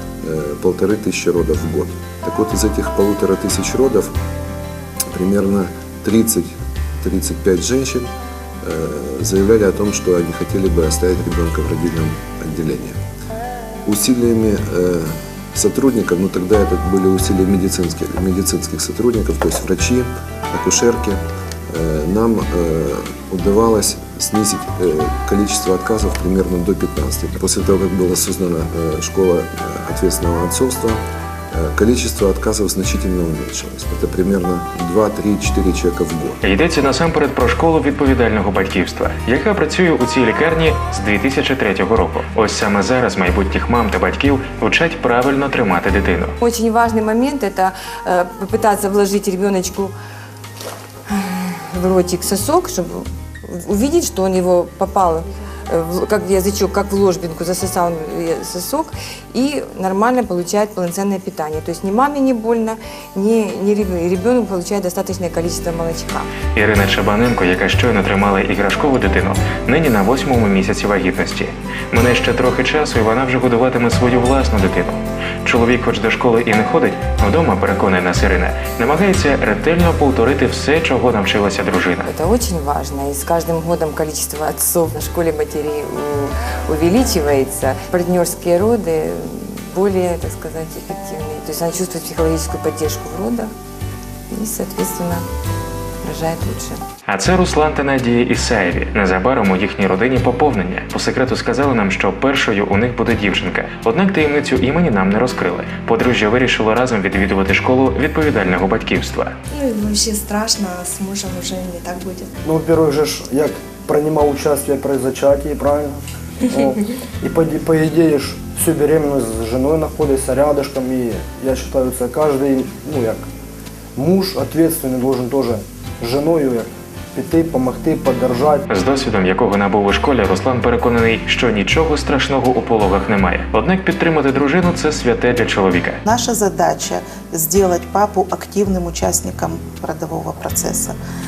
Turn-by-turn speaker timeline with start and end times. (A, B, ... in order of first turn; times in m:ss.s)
0:00.2-0:04.1 A
0:05.1-0:13.0 A
0:13.8-0:36.4 A
0:36.4-0:46.3 B
0:46.4-0:49.9 C
0:51.1-1:06.3 C
1:06.6-1:22.1 B
1:22.1-1:33.5 C
1:34.3-1:35.2 C
1:36.0-1:36.8 C
1:37.0-1:49.3 B
1:49.5-1:52.3 D
1:52.4-1:56.0 E
1:56.5-2:03.2 E
2:04.0-2:08.6 E
2:08.7-2:16.0 B
2:16.0-2:21.0 F